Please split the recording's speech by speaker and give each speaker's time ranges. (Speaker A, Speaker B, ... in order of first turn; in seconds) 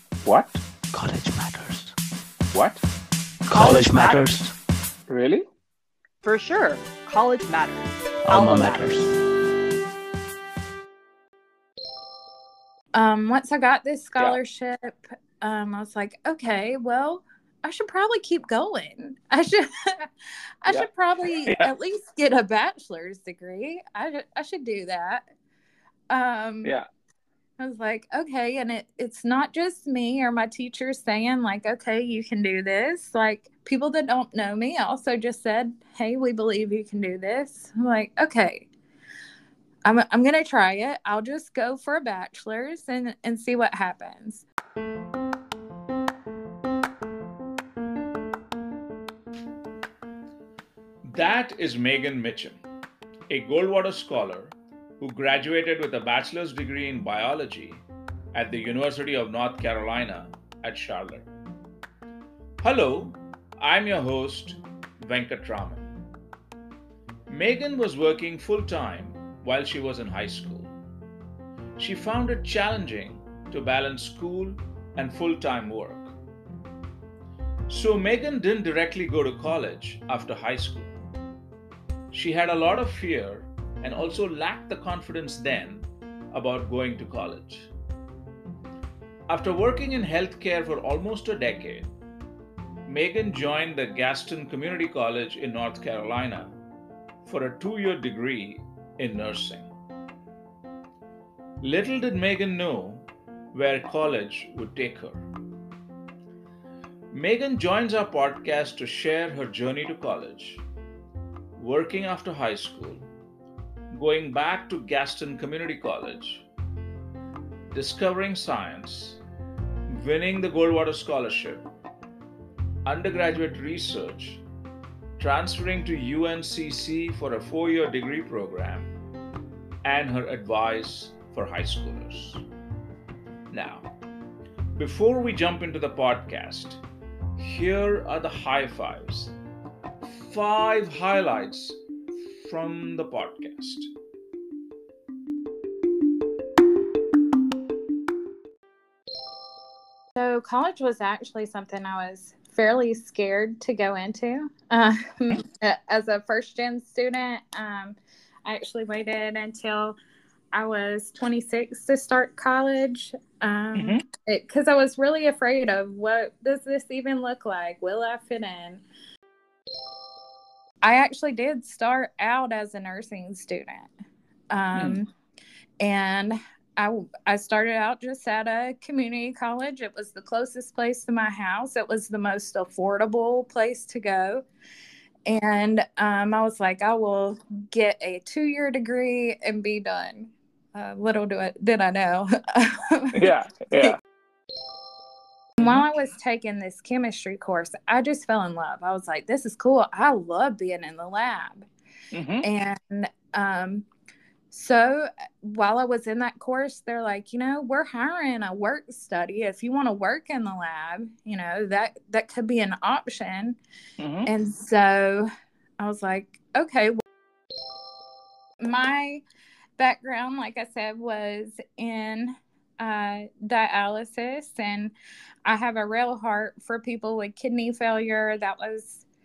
Speaker A: 0.2-0.6, 2.5-2.8, 5.1-5.5, 21.4-21.7, 163.8-164.0, 193.2-194.0, 202.1-202.4, 214.0-214.3
Speaker B: 0.9-1.9, 3.5-4.5, 8.3-9.1
Speaker C: 3.5-4.4, 6.2-9.0
Speaker D: 12.9-20.1, 20.6-25.2, 26.1-26.7, 27.6-38.7, 39.9-44.5, 150.2-160.0, 160.5-168.8, 170.8-173.9, 174.5-175.1, 175.8-184.4, 185.3-193.9, 195.6-201.7, 202.4-203.9, 204.5-213.6, 214.2-217.0, 218.6-219.2, 219.8-224.9, 225.4-229.1
Speaker E: 51.0-52.6, 53.3-61.3, 62.6-65.9, 67.3-70.7, 71.8-76.2, 77.7-81.0, 82.1-87.7, 89.3-91.9, 92.9-96.5, 97.2-99.7, 101.6-105.3, 107.1-110.7, 111.5-113.1, 113.9-116.5, 117.7-119.2, 119.9-121.7, 122.9-124.4, 125.2-128.9, 129.8-132.4, 133.5-133.9, 134.8-136.8, 137.4-139.3, 140.0-141.8, 142.3-143.9